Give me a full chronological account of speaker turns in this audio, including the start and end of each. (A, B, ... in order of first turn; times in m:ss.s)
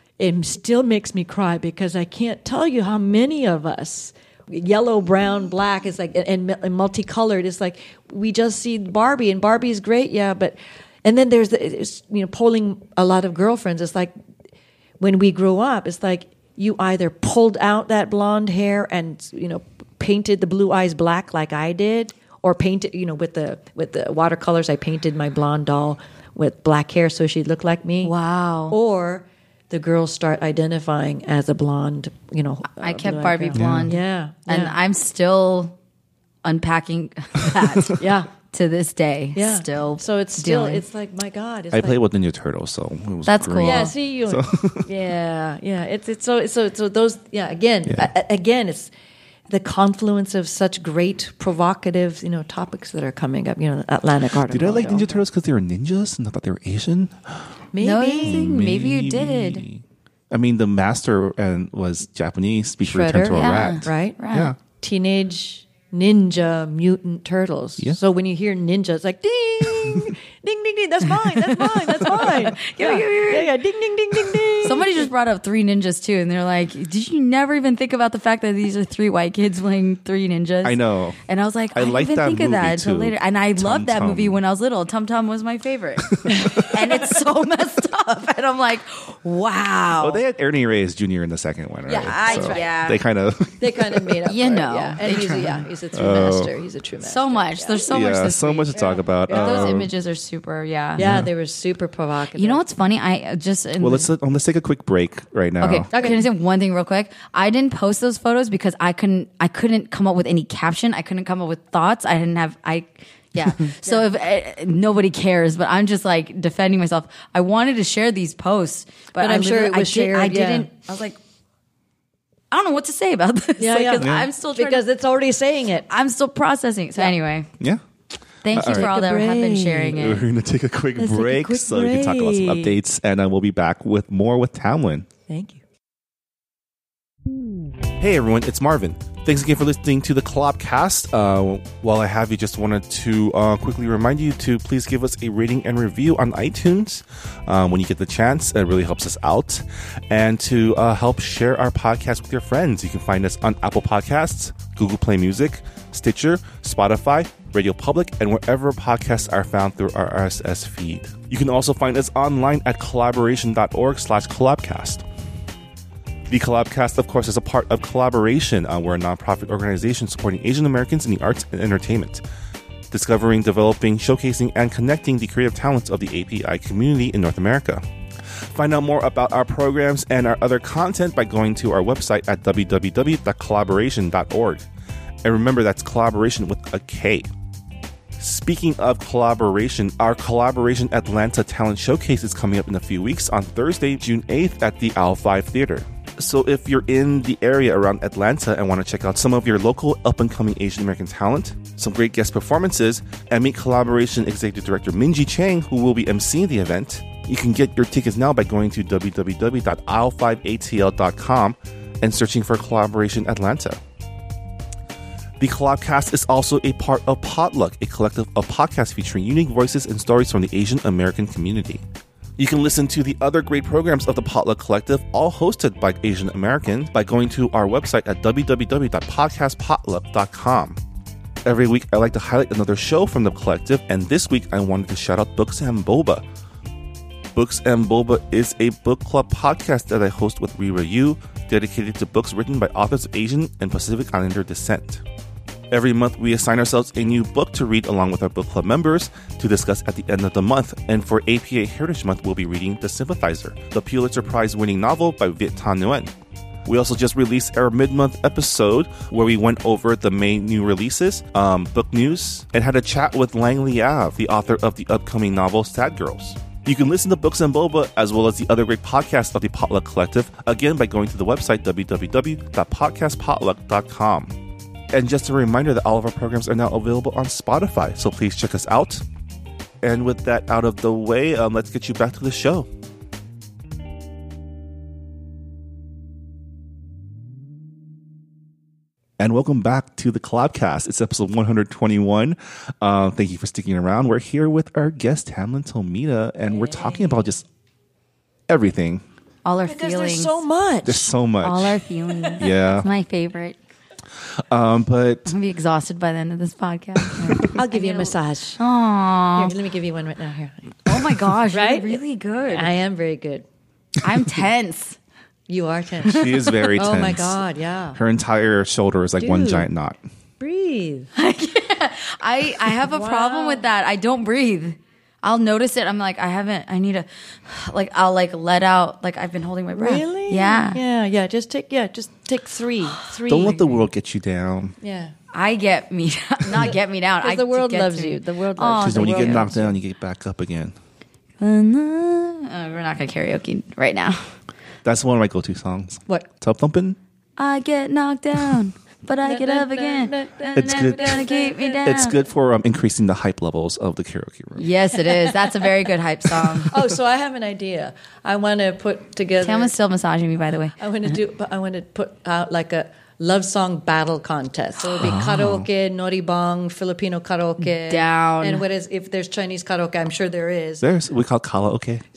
0:00.2-0:14.1 A
0:15.0-0:28.1 A
0:28.0-0:28.8 B
0:28.7-0:34.7 A
0:32.8-0:35.8 B
0:33.6-0:34.0 C
0:36.4-0:40.8 B
0:38.0-0:38.3 A
0:39.4-0:42.0 A
0:41.7-0:44.9 C
0:43.3-0:43.9 B
0:43.6-0:48.9 A
0:49.5-0:55.2 A
0:54.5-0:57.5 C
0:57.7-0:58.5 A
0:57.8-0:59.6 B
0:58.2-1:04.6 C
1:02.8-1:15.1 A
1:03.3-1:04.5 B
1:11.4-1:13.6 B
1:14.5-1:30.2 B
1:20.6-1:21.2 C
1:21.7-1:24.4 C
1:26.1-1:26.8 C
1:30.0-1:34.1 C
1:31.9-1:32.7 A
1:32.0-1:33.0 B
1:33.6-1:37.8 A
1:34.3-1:35.6 B
1:35.9-1:36.5 C
1:37.0-1:41.0 B
1:37.9-1:39.9 C
1:38.7-1:39.8 A
1:41.0-1:42.6 A
1:41.0-1:41.3 C
1:42.4-1:44.1 B
1:43.8-1:45.9 C
1:45.6-2:01.2 B
1:45.9-1:46.2 A
1:59.2-2:00.7 A
2:02.5-2:04.8 B
2:03.6-2:05.9 A
2:04.0-2:04.3 C
2:05.9-2:07.5 B
2:08.4-2:10.3 B
2:08.5-2:08.9 C
2:08.5-2:10.1 A
2:09.9-2:15.1 C
2:11.0-2:12.8 A
2:15.3-2:15.6 A
2:18.0-2:45.0 C
2:46.3-2:52.2 C
2:52.9-2:57.8 C
2:58.5-3:04.6 C
3:05.2-3:07.3 C
3:08.2-3:33.8 C
3:35.4-3:41.8 C
3:42.4-3:50.8 C
3:51.4-3:56.2 C
3:57.3-4:05.0 C
4:05.7-4:16.1 C
4:16.6-4:34.4 C
4:34.9-4:39.0 C
4:39.8-4:42.7 C
4:49.2-4:57.4 C
4:56.6-4:57.0 A
4:58.5-4:59.0 C
4:59.4-5:00.4 B
4:59.7-5:01.1 A
5:00.8-5:01.8 C
5:01.4-5:03.6 B
5:02.4-5:02.9 C
5:04.5-5:05.3 C
5:05.3-5:09.5 B
5:07.5-5:08.6 A
5:09.4-5:10.8 A
5:10.9-5:12.7 B
5:11.5-5:12.0 A
5:12.5-5:13.5 A
5:14.0-5:15.0 B
5:15.5-5:18.0 A
5:16.0-5:17.4 C
5:16.1-5:16.6 B
5:18.0-5:20.0 C
5:19.2-5:19.7 A
5:20.4-5:21.1 A
5:21.2-5:30.8 B
5:22.8-5:23.7 A
5:29.8-5:33.8 A
5:33.3-5:34.8 C
5:34.8-5:35.1 A
5:35.3-5:39.6 B
5:37.2-5:39.7 A
5:38.8-5:40.8 C
5:41.4-5:44.2 B
5:44.8-5:47.0 C
5:47.4-5:52.2 B
5:49.2-5:51.9 A
5:50.6-5:51.2 C
5:51.8-5:54.7 C
5:54.6-5:56.8 B
5:56.6-5:59.7 A
5:59.4-6:00.8 B
6:00.8-6:10.8 A
6:05.0-6:05.7 C
6:07.8-6:08.6 B
6:10.8-6:12.0 C